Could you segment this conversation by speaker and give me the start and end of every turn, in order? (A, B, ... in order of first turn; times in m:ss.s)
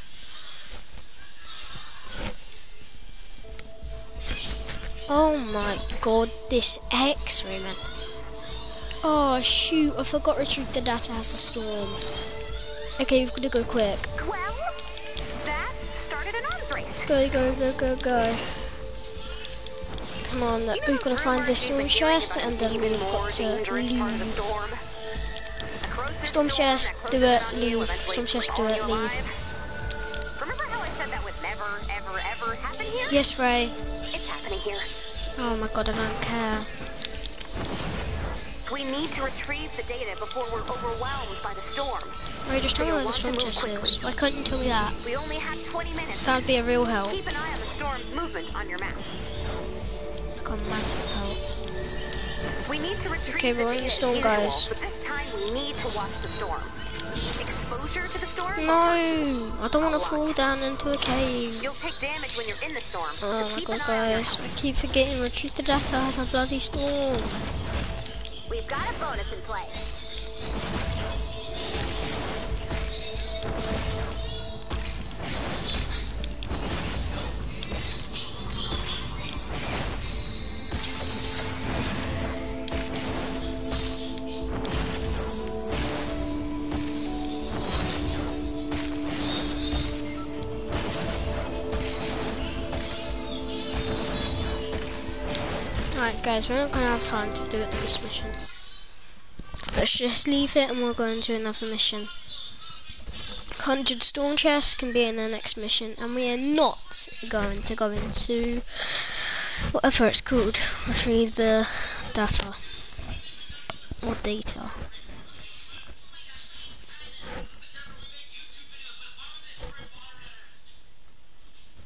0:05.1-0:07.8 A
0:09.0-0:12.0 A
0:13.0-0:14.1 A
0:14.2-0:14.8 B
0:15.4-0:17.1 B
0:17.0-0:18.7 A
0:20.2-0:24.4 A
0:20.7-0:24.8 B
0:25.8-0:29.3 B
0:26.2-0:29.2 A
0:30.4-0:33.2 B
0:33.1-0:33.7 A
0:34.1-0:34.9 B
0:35.3-0:36.7 A
0:38.7-0:42.2 B
0:42.4-0:45.0 A
0:42.7-0:44.0 B
0:45.0-0:46.4 B
0:46.2-0:47.2 A
0:47.1-0:49.0 B
0:50.4-0:51.4 A
0:52.6-0:56.8 B
0:53.2-0:54.7 A
0:57.3-1:00.3 B
0:58.6-1:01.7 A
1:01.6-1:04.4 B
1:03.2-1:07.4 A
1:08.5-1:09.8 B
1:35.9-1:38.4 A
1:39.6-1:42.1 A
1:43.6-1:52.8 A
1:54.0-1:54.8 A